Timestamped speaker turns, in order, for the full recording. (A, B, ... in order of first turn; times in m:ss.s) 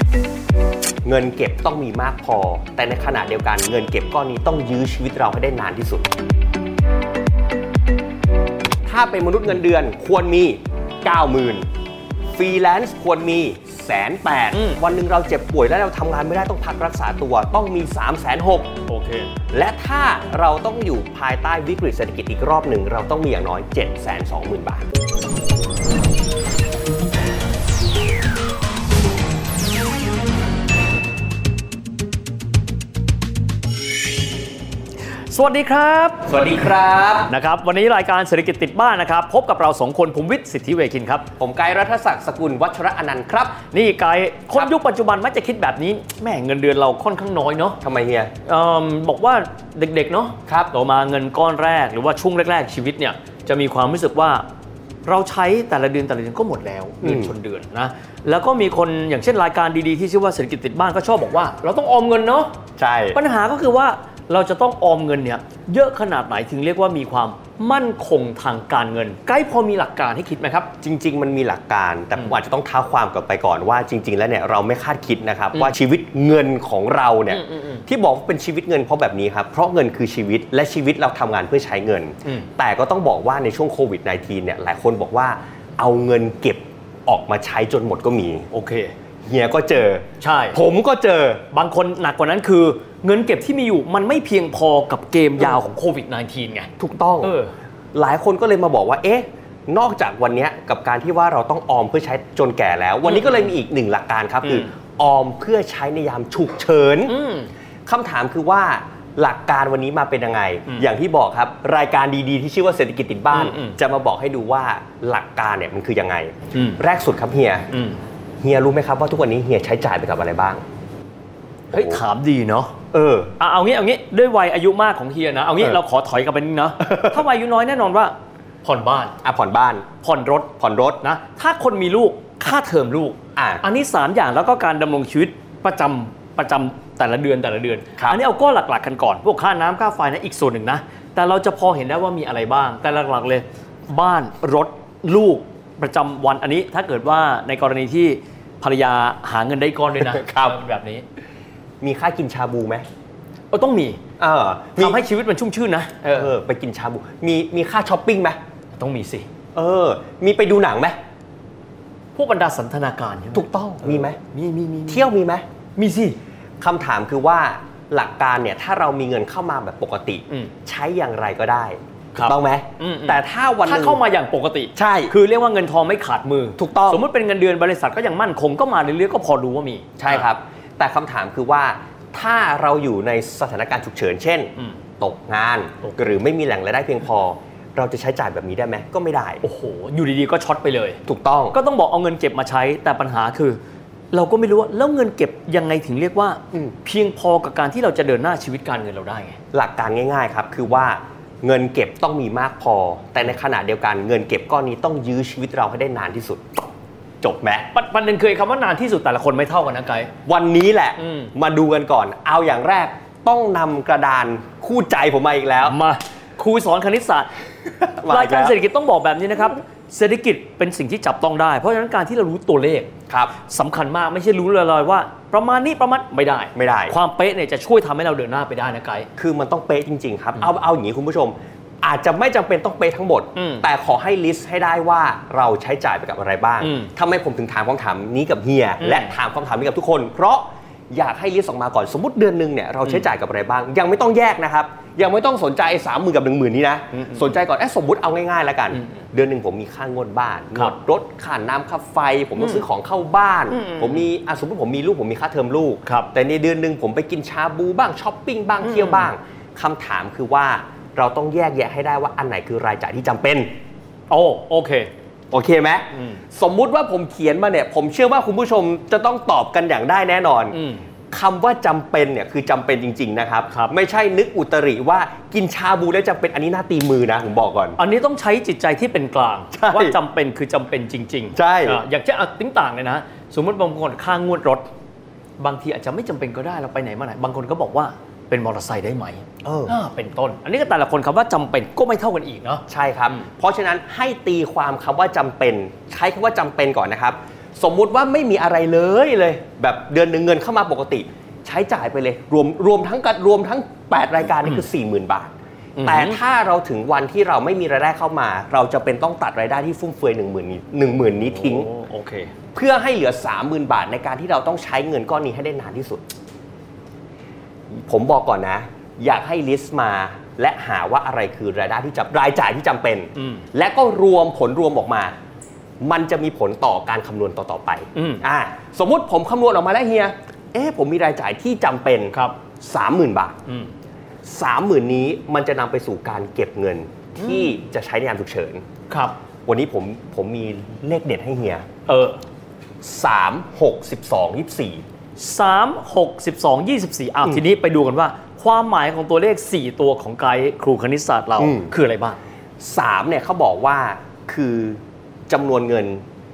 0:01.0-0:06.1 A
0:08.8-0:11.7 A
0:12.3-0:18.7 A
0:14.5-0:14.8 B
0:18.9-0:19.3 B
0:19.5-0:24.8 A
0:35.3-0:36.3 B
0:36.3-0:37.3 A
0:37.3-0:41.3 B
0:41.4-0:43.6 A
0:43.7-0:47.8 B
0:47.8-0:48.3 A
0:48.4-0:54.4 B
0:50.5-0:50.7 A
0:55.0-1:02.5 B
0:57.0-0:57.3 A
1:02.8-1:03.2 A
1:03.1-1:10.7 B
1:10.8-1:28.5 A
1:17.3-1:17.8 B
1:28.5-1:28.9 B
1:29.2-1:31.4 A
1:30.2-1:30.6 B
1:31.5-1:36.7 B
1:36.8-1:37.3 A
1:37.2-1:37.5 B
1:37.9-1:47.2 A
1:43.0-1:43.5 B
1:44.4-1:44.7 B
1:47.1-1:47.5 B
1:47.8-1:57.7 A
1:53.3-1:53.8 B
1:56.5-1:56.8 B
1:57.7-1:58.0 B
1:58.4-2:00.6 A
2:01.7-2:02.7 B
2:01.7-2:02.0 A
2:02.9-2:03.3 A
2:03.4-2:09.1 B
2:09.2-2:09.9 A
2:10.0-2:31.0 B
2:10.6-2:11.0 A
2:13.4-2:13.6 A
2:30.0-2:30.6 A
2:31.8-2:32.8 A
2:33.5-2:34.0 B
2:34.2-2:35.0 A
2:34.8-2:36.3 B
2:36.1-2:38.4 A
2:38.7-2:39.3 B
2:39.5-2:41.0 A
2:42.1-2:45.1 B
2:43.3-2:44.2 A
2:44.9-2:45.4 A
2:45.8-2:46.2 B
2:46.6-2:54.0 A
2:52.1-3:00.3 B
2:54.7-2:55.1 A
2:56.6-2:57.0 A
3:00.0-3:09.4 A
3:09.4-3:11.0 B
3:11.0-3:11.6 A
3:11.5-3:13.6 B
3:14.1-3:19.4 B
3:19.5-3:26.6 A
3:27.2-3:27.7 A
3:27.7-3:30.1 B
3:30.2-3:35.8 A
3:31.0-3:31.3 B
3:35.6-3:37.3 B
3:37.8-3:38.6 A
3:38.1-3:42.9 B
3:43.1-3:43.3 A
3:43.5-3:49.1 B
3:46.5-3:47.0 A
3:49.2-4:23.5 A
3:53.3-3:53.6 B
3:56.6-3:56.9 B
3:58.8-3:59.1 B
4:07.0-4:07.3 B
4:13.5-4:14.0 B
4:18.6-4:19.1 B
4:24.1-4:24.9 B
4:25.3-4:30.6 A
4:25.9-4:26.2 B
4:30.5-4:30.8 B
4:31.1-4:37.8 A
4:33.5-4:33.7 B
4:37.8-4:44.7 B
4:39.5-4:40.0 A
4:41.3-4:41.8 A
4:45.4-4:53.2 B
4:49.4-4:49.8 A
4:52.7-5:05.3 A
5:05.8-5:06.2 B
5:05.8-5:11.7 A
5:11.2-5:12.3 B
5:12.5-5:16.0 A
5:17.7-5:25.1 A
5:23.2-5:23.4 B
5:25.8-5:33.4 A
5:27.9-5:28.2 B
5:32.1-5:32.4 B
5:34.2-5:38.6 A
5:37.2-5:37.5 B
5:38.9-5:39.2 B
5:39.4-5:41.6 A
5:41.9-5:42.2 B
5:42.8-5:44.8 A
5:45.2-5:52.2 B
5:51.4-5:51.7 A
5:52.6-5:56.0 A